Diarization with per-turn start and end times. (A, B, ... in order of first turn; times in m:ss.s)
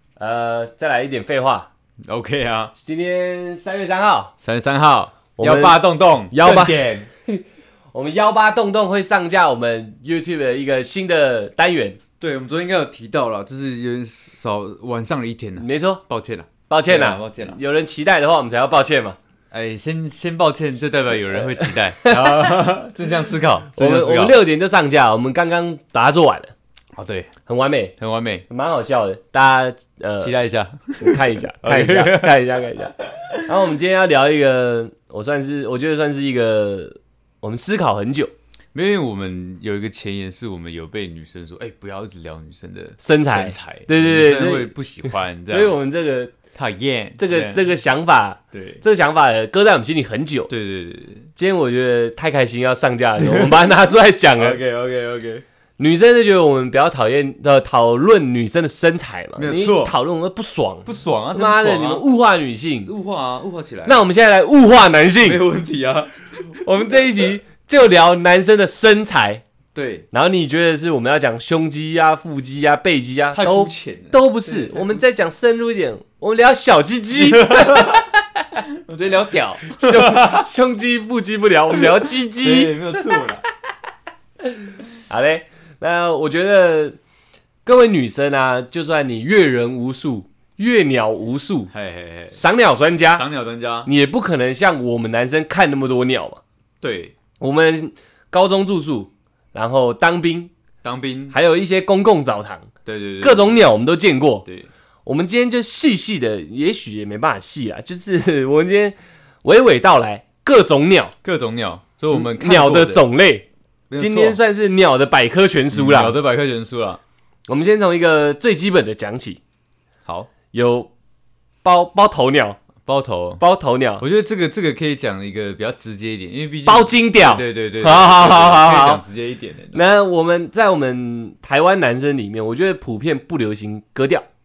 0:00.2-0:01.7 A
0:02.0-0:02.7 B
0:02.8-0:04.3 A
0:04.4-0:07.1 B
0:05.4-0:12.0 A
0:12.2-0:17.6 B
0:15.6-0:16.0 A
0:16.7-0:19.2 A
0:19.5-0:24.4 B
0:21.4-0:22.6 A
0:23.8-0:26.5 A
0:27.0-0:27.3 B
0:27.5-0:28.0 A
0:28.0-0:28.4 B
0:28.5-0:30.3 A
0:30.2-0:32.6 B
0:31.0-0:38.3 A
0:38.7-0:45.8 B
0:43.0-0:46.4 A
0:46.5-0:47.6 B
0:47.2-0:50.5 A
0:48.5-0:48.8 B
0:50.5-0:51.3 B
0:51.4-0:54.6 A
0:53.2-0:53.7 B
0:54.4-0:55.4 B
0:55.8-1:02.9 A
0:59.4-0:59.9 B
1:00.8-1:02.0 B
1:02.9-1:04.0 B
1:03.9-1:05.4 A
1:05.2-1:06.6 B
1:06.6-1:09.4 A
1:09.7-1:10.1 B
1:10.1-1:18.6 A
1:13.3-1:15.0 B
1:17.1-1:18.0 B
1:18.7-1:20.5 B
1:19.7-1:23.0 A
1:22.4-1:23.4 B
1:25.1-1:27.0 A
1:27.7-1:31.7 A
1:31.7-1:32.4 B
1:32.3-1:33.2 A
1:33.1-1:33.9 B
1:33.8-1:36.4 A
1:36.8-1:37.2 B
1:37.4-1:40.5 A
1:40.8-1:41.4 B
1:41.3-1:42.7 A
1:42.8-1:43.6 B
1:43.2-1:44.5 A
1:45.0-1:51.1 A
1:51.2-1:53.0 B
1:52.1-1:53.5 A
1:53.9-1:54.4 B
1:54.0-1:56.2 A
1:55.7-1:57.0 B
1:57.5-1:59.4 A
2:00.1-2:00.3 B
2:00.5-2:00.9 A
2:01.6-2:02.6 A
2:02.8-2:03.4 B
2:03.4-2:04.0 A
2:04.0-2:09.8 B
2:06.7-2:09.0 A
2:09.7-2:14.2 A